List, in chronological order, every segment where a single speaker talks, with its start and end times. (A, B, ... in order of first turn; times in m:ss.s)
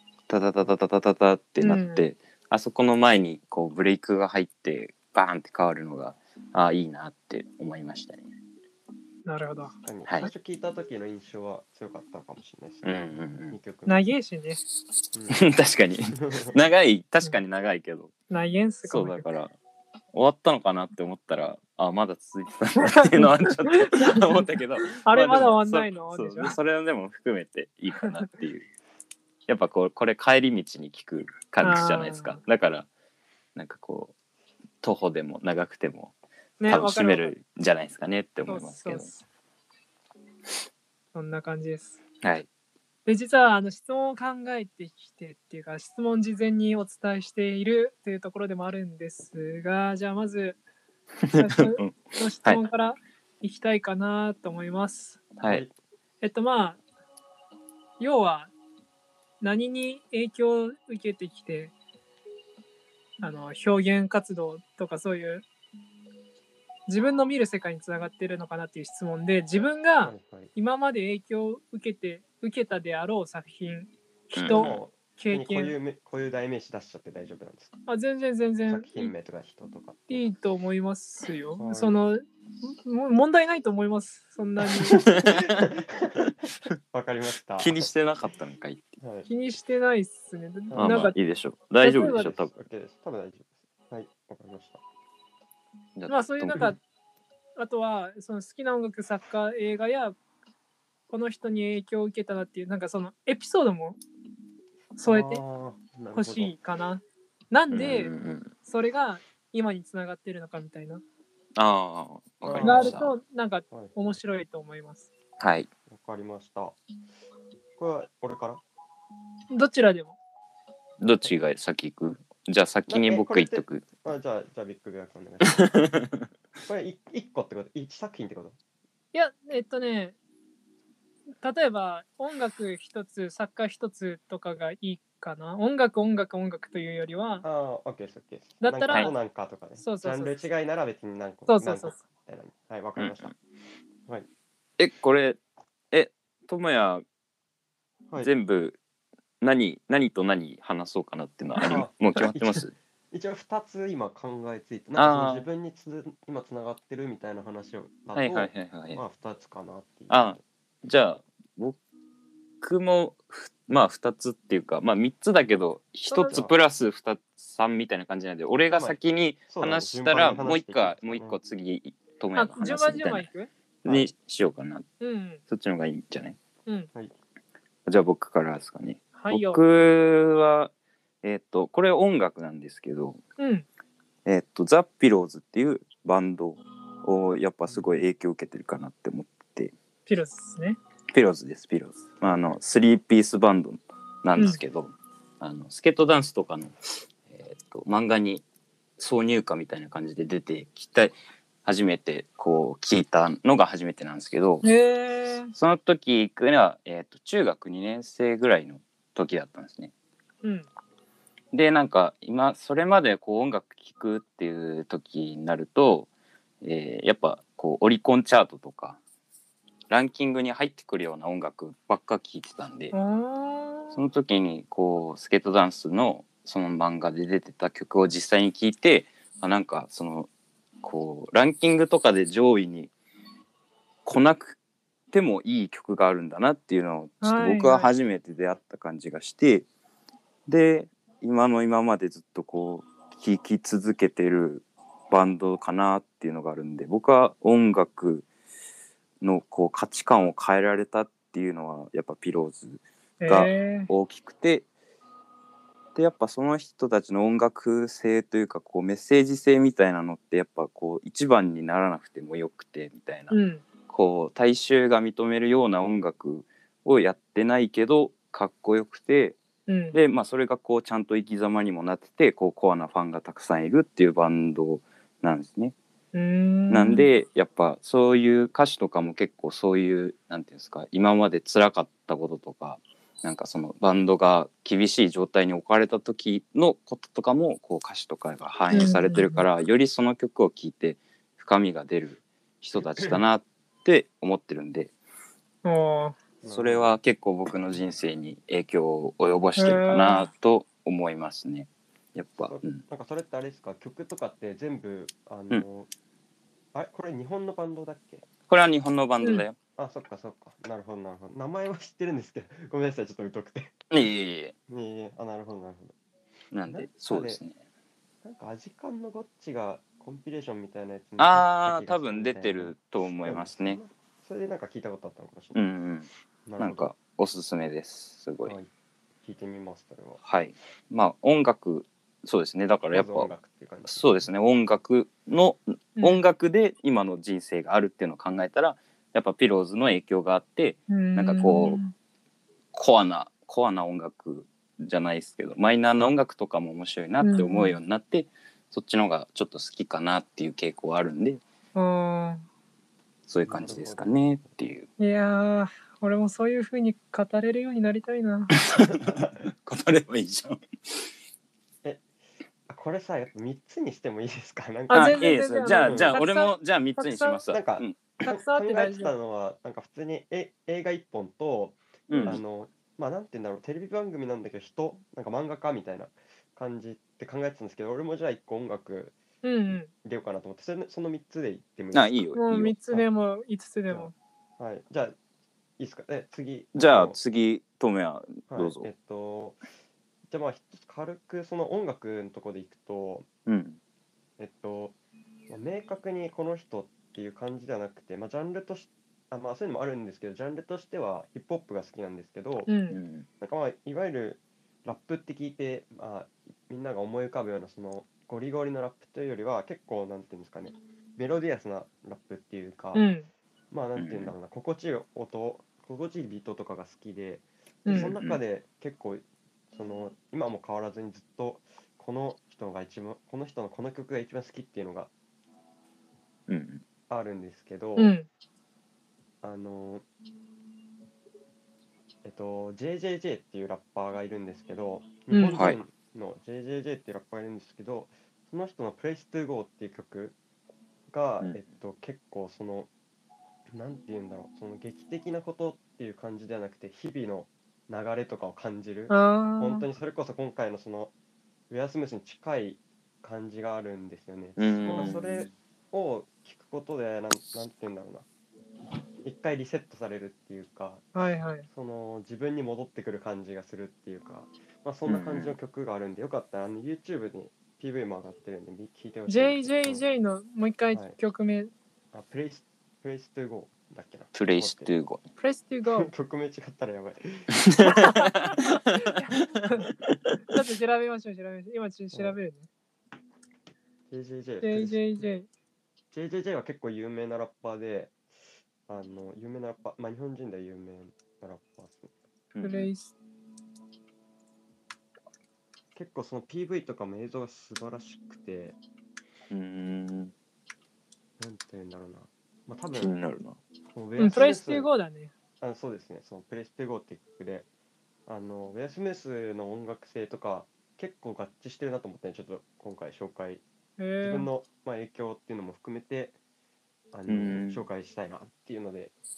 0:00.3-0:08.3 A
0:01.6-0:02.1 B
0:09.2-0:09.7 B
0:09.8-0:14.1 C
0:12.8-0:13.6 A
0:13.9-0:14.6 B
0:15.1-0:15.5 C
0:15.3-0:18.1 A
0:16.1-0:16.5 C
0:18.3-0:19.2 B
0:18.8-0:19.5 A
0:20.1-0:28.7 A
0:22.9-0:24.4 B
0:24.9-0:26.6 B
0:29.5-0:32.9 A
0:31.6-0:32.4 B
0:33.6-0:34.1 A
0:34.8-0:36.1 A
0:36.6-0:37.3 B
0:36.7-0:39.1 A
0:38.5-0:39.2 B
0:41.1-0:42.0 B
0:43.0-0:50.6 B
0:51.2-0:52.6 A
0:51.4-0:55.2 B
0:55.4-0:55.6 A
0:55.4-0:55.8 C
0:56.2-0:56.8 B
0:58.0-0:58.5 B
0:59.4-1:01.7 B
1:03.2-1:05.4 B
1:06.9-1:15.8 B
1:10.0-1:10.5 C
1:14.4-1:14.8 A
1:14.5-1:17.7 C
1:17.9-1:19.1 B
1:18.7-1:20.2 C
1:20.1-1:25.0 B
1:21.6-1:22.0 C
1:24.9-1:25.6 A
1:25.1-1:26.3 C
1:26.9-1:27.8 C
1:27.6-1:29.0 A
1:29.0-1:29.3 C
1:29.3-1:31.2 B
1:30.7-1:31.1 C
1:30.8-1:32.5 A
1:31.8-1:32.3 B
1:32.0-1:34.8 C
1:36.0-1:36.7 A
1:36.1-1:36.8 B
1:37.6-1:40.2 B
1:41.1-1:44.0 B
1:45.0-1:45.4 B
1:45.0-1:46.6 C
1:46.1-1:48.1 B
1:47.7-1:48.5 A
1:48.6-1:51.0 B
1:51.6-1:53.1 A
1:52.4-1:53.1 C
1:52.6-1:55.1 B
1:53.7-1:54.0 C
1:55.4-1:55.7 A
1:55.9-1:56.8 C
1:57.8-1:58.6 C
1:59.5-2:00.2 B
2:01.0-2:03.9 A
2:02.9-2:05.8 C
2:05.6-2:06.2 A
2:06.7-2:08.6 C
2:09.1-2:10.2 B
2:11.4-2:17.5 B
2:17.4-2:23.3 C
2:18.6-2:19.2 B
2:19.8-2:20.5 B
2:21.5-2:22.0 B
2:23.0-2:23.3 A
2:24.8-2:25.4 A
2:25.9-2:27.0 A
2:28.2-2:28.8 A
2:29.4-2:32.8 A
2:31.6-2:40.4 C
2:34.9-2:35.5 A
2:38.1-2:39.0 A
2:40.1-2:41.8 A
2:42.6-2:53.3 A
2:46.1-2:46.4 B
2:46.3-2:46.6 C
2:48.7-2:49.0 C
2:49.5-2:51.4 C
2:52.4-2:53.5 B
2:53.8-2:54.1 C
2:53.8-2:54.9 A
2:55.0-2:55.4 B
2:55.5-2:56.4 A
2:57.9-3:00.7 A
2:59.1-2:59.6 B
3:01.2-3:03.2 A
3:03.4-3:03.7 B
3:04.3-3:09.7 A
3:10.1-3:10.8 B
3:11.1-3:16.7 A
3:12.2-3:12.6 C
3:17.3-3:18.4 A
3:19.0-3:24.6 A
3:24.6-3:25.5 B
3:25.5-3:29.9 A
3:30.4-3:30.7 B
3:31.5-3:36.1 A
3:36.6-3:39.0 A
3:39.9-3:43.0 A
3:42.9-3:44.0 B
3:43.9-3:50.3 A
3:50.8-3:52.9 A
3:54.1-3:54.6 A
3:55.1-3:59.7 A
3:57.2-3:57.9 B
4:00.5-4:08.3 A
4:09.2-4:14.7 A
4:13.2-4:13.9 B
4:16.0-4:23.4 A
4:23.3-4:23.6 B
4:23.9-4:29.4 A
4:29.7-4:30.0 B
4:29.9-4:35.8 A
4:36.1-4:37.1 B
4:36.7-4:54.9 A
4:48.7-4:49.4 B
4:55.6-4:56.2 B
4:56.4-4:57.0 C
4:56.5-5:02.8 A
4:59.6-5:00.3 B
5:02.5-5:05.9 C
5:06.7-5:08.2 C
5:08.5-5:09.6 A
5:09.8-5:13.7 C
5:13.9-5:14.5 A
5:14.7-5:15.9 C
5:16.5-5:17.6 A
5:16.7-5:17.4 C
5:18.2-5:25.6 C
5:21.2-5:23.8 A
5:25.5-5:28.6 A
5:26.5-5:26.9 C
5:28.4-5:28.7 C
5:29.2-5:30.2 C
5:30.2-5:33.3 A
5:32.9-5:34.3 C
5:33.9-5:41.8 A
5:36.0-5:36.2 B
5:40.9-5:41.9 B
5:42.7-5:51.4 A
5:47.2-5:47.8 B
5:51.8-5:52.4 B
5:53.3-5:54.9 A
5:53.5-5:54.1 C
5:55.0-5:58.5 B
5:58.6-6:00.6 A
5:58.8-5:59.4 C
6:02.7-6:06.2 C
6:04.9-6:08.2 A
6:04.9-6:07.4 B
6:07.5-6:19.2 C
6:08.2-6:09.1 B
6:12.1-6:12.4 A
6:12.1-6:12.4 B
6:19.4-6:19.9 B
6:19.9-6:22.3 C
6:21.9-6:22.8 A
6:22.3-6:24.1 B
6:23.9-6:25.2 C
6:25.8-6:27.2 C
6:26.8-6:28.9 A
6:28.5-6:29.6 C
6:30.3-6:33.3 C
6:33.5-6:33.8 A
6:34.4-6:35.0 C
6:35.5-6:42.7 C
6:42.7-6:43.0 B
6:42.9-6:43.3 A
6:43.4-6:53.1 C
6:52.9-6:53.3 B
6:53.7-7:05.1 C
6:54.0-6:54.4 A
6:57.9-6:58.1 B
6:57.9-6:58.4 A
7:06.5-7:06.8 A
7:07.1-7:08.1 C
7:08.0-7:08.3 B
7:09.4-7:10.0 C
7:12.2-7:20.4 C
7:15.3-7:15.7 B
7:15.6-7:15.8 A
7:21.1-7:22.9 C
7:23.7-7:31.1 C
7:29.1-7:29.9 B
7:31.7-7:38.3 C
7:34.6-7:35.5 A
7:39.2-7:41.2 C
7:41.2-7:41.7 B
7:41.7-7:50.0 C
7:45.1-7:45.6 A
7:49.3-7:51.7 B
7:50.9-7:51.2 C
7:52.1-7:54.9 C
7:54.3-7:55.2 A
7:55.4-7:56.1 B
7:55.9-7:58.0 C
7:57.6-7:58.6 A
7:57.9-7:59.9 B
8:00.5-8:02.7 B
8:04.1-8:05.2 C
8:04.6-8:05.5 B
8:06.1-8:08.2 C
8:08.9-8:12.1 C
8:12.5-8:12.9 A
8:12.6-8:13.1 B
8:15.9-8:18.8 C
8:19.5-8:20.3 A
8:21.4-8:23.1 C
8:23.0-8:23.6 A
8:24.0-8:24.9 C
8:24.2-8:25.3 B
8:25.6-8:27.7 C
8:28.3-8:33.6 C
8:34.0-8:34.5 B
8:34.2-8:36.4 C
8:37.1-8:39.2 C
8:37.3-8:37.8 A